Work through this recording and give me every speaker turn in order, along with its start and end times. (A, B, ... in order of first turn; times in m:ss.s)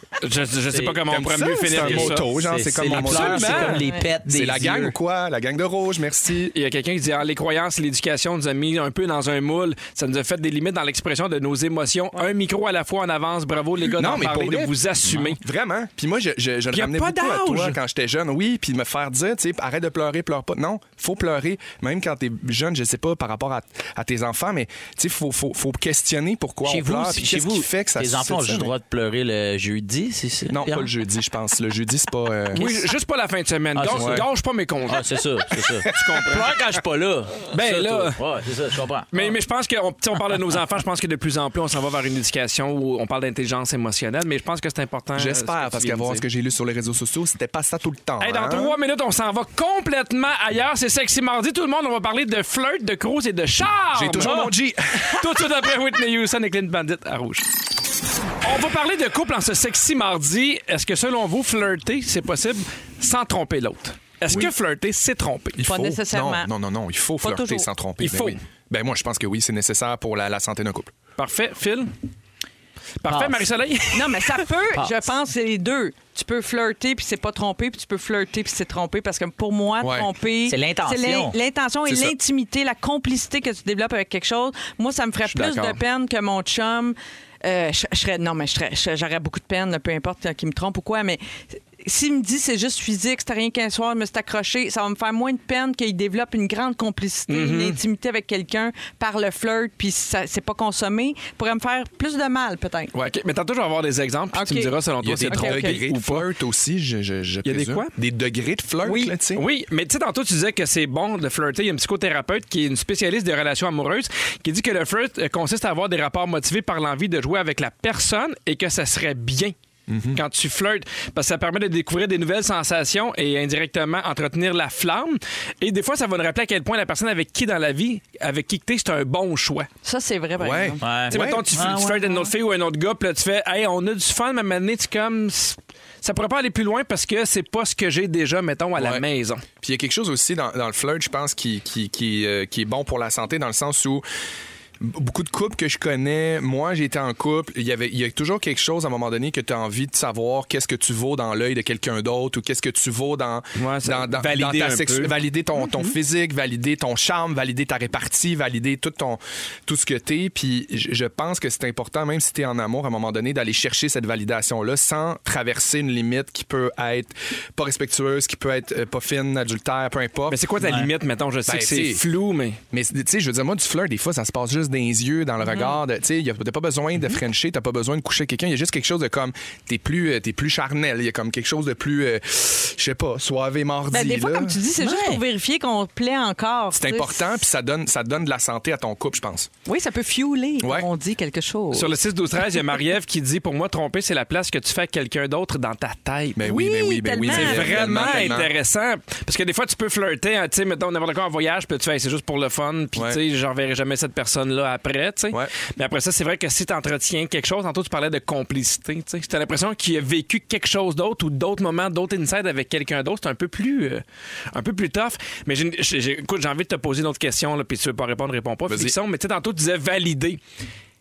0:00.2-0:02.3 A
0:00.7-0:01.0 B
0:01.1-0:06.5 C
0:01.7-0:05.0 B
0:02.8-0:03.8 A
0:06.5-0:15.4 A
0:13.9-0:28.7 C
0:16.7-0:17.8 A
0:26.7-0:30.9 B
0:30.5-0:32.6 C
0:32.5-0:35.1 A
0:33.8-0:34.3 B
0:34.0-0:34.2 C
0:34.9-0:39.4 B
0:35.8-0:36.3 C
0:35.9-0:36.5 A
0:37.5-0:38.2 A
0:39.1-0:46.2 A
0:45.2-0:48.8 C
0:48.2-0:57.5 A
0:53.9-0:55.3 C
0:58.4-1:05.6 A
1:05.6-1:10.9 C
1:05.6-1:06.5 D
1:07.2-1:07.7 D
1:08.0-1:08.4 A
1:11.2-1:11.9 A
1:13.0-1:14.4 A
1:13.1-1:13.4 B
1:13.9-1:42.9 D
1:19.8-1:20.1 C
1:20.5-1:21.4 B
1:21.9-1:22.2 C
1:25.3-1:25.7 A
1:37.3-1:37.8 A
1:42.9-1:46.3 A
1:44.3-1:44.7 D
1:45.0-1:49.4 C
1:45.3-1:45.8 D
1:47.4-1:47.9 A
1:48.8-1:49.2 D
1:49.4-1:59.5 A
1:59.9-2:00.2 C
2:00.1-2:09.7 A
2:09.8-2:10.8 D
2:10.4-2:11.7 C
2:10.8-2:12.2 B
2:11.1-2:19.4 A
2:18.8-2:19.0 C
2:19.6-2:24.0 C
2:24.8-2:50.4 C
2:33.6-2:35.9 A
2:50.3-2:52.6 A
2:50.6-2:50.9 B
2:51.5-2:52.0 C
2:52.7-3:04.6 C
3:03.9-3:07.2 D
3:04.8-3:05.2 B
3:06.7-3:09.5 C
3:09.7-3:11.9 D
3:10.6-3:10.9 C
3:11.7-3:16.5 A
3:16.4-3:18.5 C
3:16.5-3:18.4 D
3:17.3-3:40.4 A
3:38.7-3:39.0 C